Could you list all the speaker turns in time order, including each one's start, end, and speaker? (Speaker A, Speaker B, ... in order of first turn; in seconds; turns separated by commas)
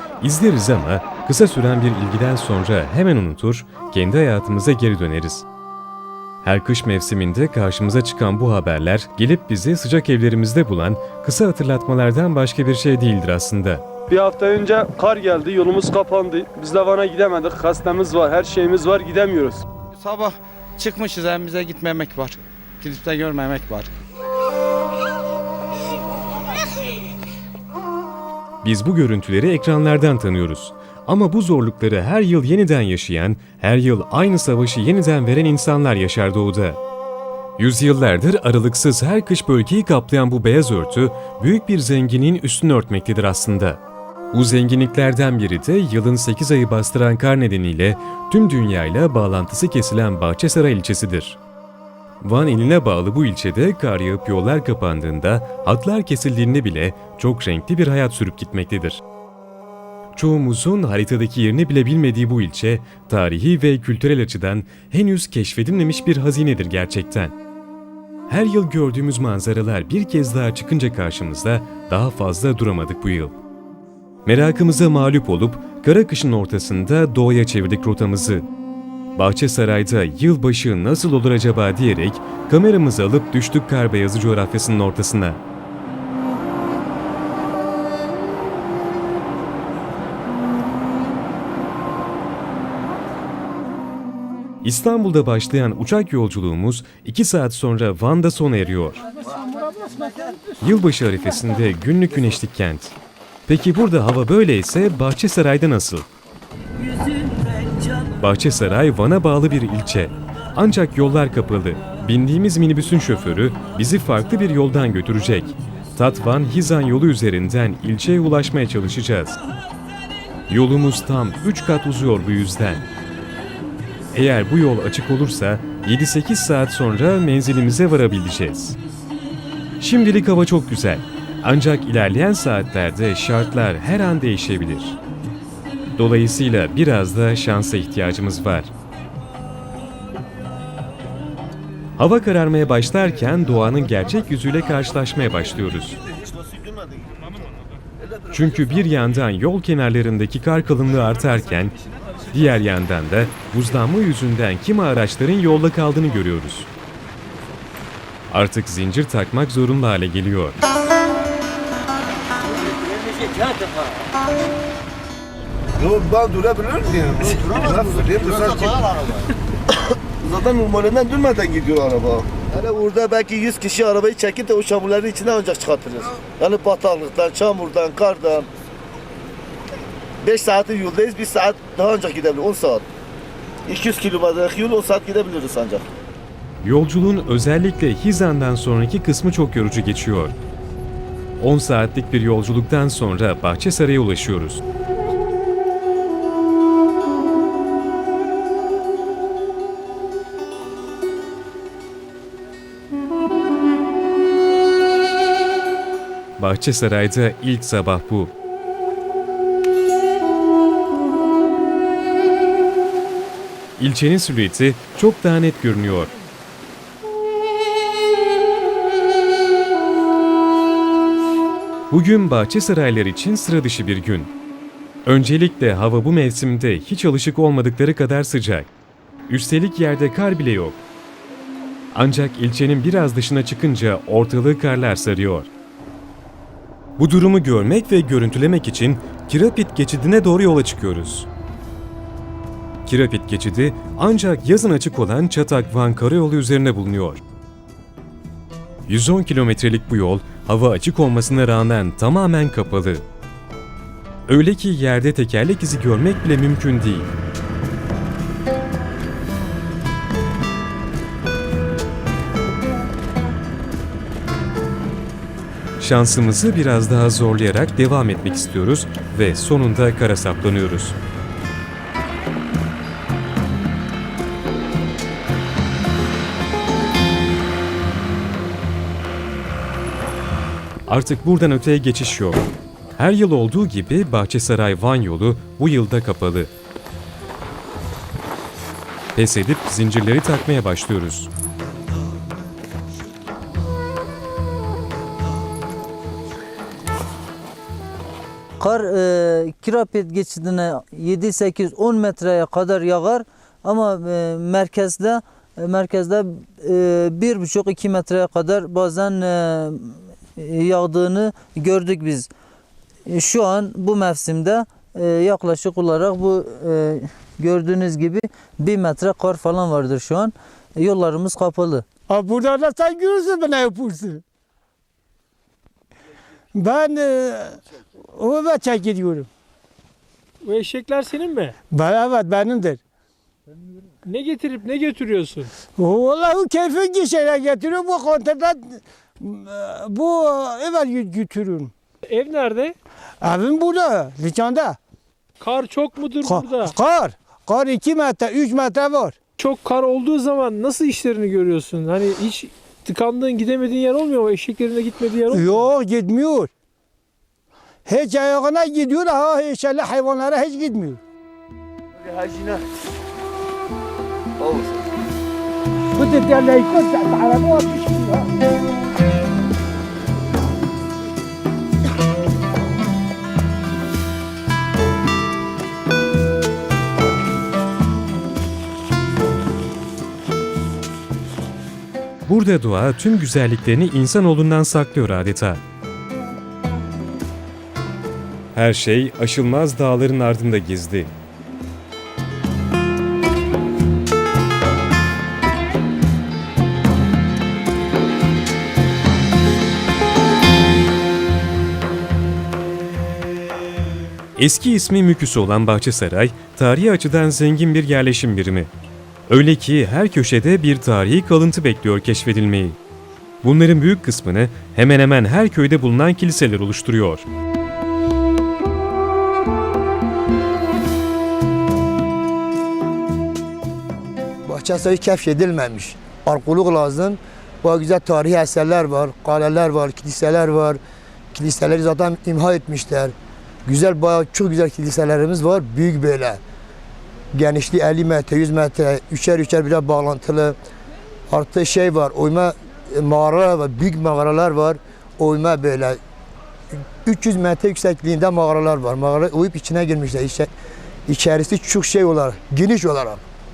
Speaker A: 0.2-5.4, Speaker A: 6.4-13.8, Speaker B: 14.1-19.6, Speaker C: 19.9-23.9, Speaker A: 28.6-36.8, Speaker A: 37.6-43.8, Speaker A: 44.3-51.4, Speaker A: 52.2-59.0, Speaker A: 60.1-67.3, Speaker A: 68.3-73.3, Speaker A: 74.2-78.5, Speaker A: 79.2-85.4, Speaker A: 94.6-99.0, Speaker A: 100.6-102.9, Speaker A: 103.5-106.1, Speaker A: 108.2-119.4, Speaker A: 120.5-122.9, Speaker A: 124.1-128.8, Speaker A: 129.8-135.0, Speaker A: 135.9-138.7, Speaker A: 142.0-146.0, Speaker A: 148.3-151.7, Speaker A: 152.3-156.7, Speaker A: 158.3-160.6, Speaker D: 165.8-168.9, Speaker D: 170.2-178.5, Speaker D: 180.2-182.8, Speaker D: 183.7-185.8, Speaker A: 186.6-190.3, Speaker A: 191.4-194.6, Speaker A: 206.4-208.3, Speaker A: 213.8-216.1, Speaker A: 221.9-224.3, Speaker A: 225.0-228.7, Speaker A: 229.3-230.8, Speaker A: 231.9-235.5, Speaker A: 237.0-241.3, Speaker A: 242.8-247.2, Speaker A: 248.9-253.0, Speaker A: 254.3-257.1, Speaker A: 265.8-270.9, Speaker A: 280.9-282.4, Speaker A: 283.0-286.5, Speaker A: 289.1-291.3, Speaker E: 298.6-312.3, Speaker E: 313.1-321.8, Speaker F: 322.1-324.2, Speaker F: 326.5-327.6, Speaker F: 328.1-329.3, Speaker G: 330.4-331.6, Speaker F: 331.7-332.8, Speaker G: 334.0-335.5, Speaker F: 335.8-341.7, Speaker G: 342.1-342.8, Speaker F: 343.2-344.8, Speaker G: 345.4-346.7, Speaker F: 346.2-349.2, Speaker G: 349.4-355.7, Speaker F: 355.3-356.5, Speaker F: 357.9-361.0, Speaker D: 362.1-362.6, Speaker D: 364.4-364.8, Speaker F: 365.9-368.3, Speaker A: 382.2-385.6, Speaker A: 388.5-391.1, Speaker A: 404.4-408.7, Speaker A: 409.3-412.8, Speaker A: 413.4-417.2, Speaker H: 424.4-430.8, Speaker H: 431.3-433.1, Speaker H: 433.6-436.4, Speaker H: 437.3-440.6, Speaker H: 441.3-446.0, Speaker H: 447.0-450.5, Speaker H: 451.1-453.2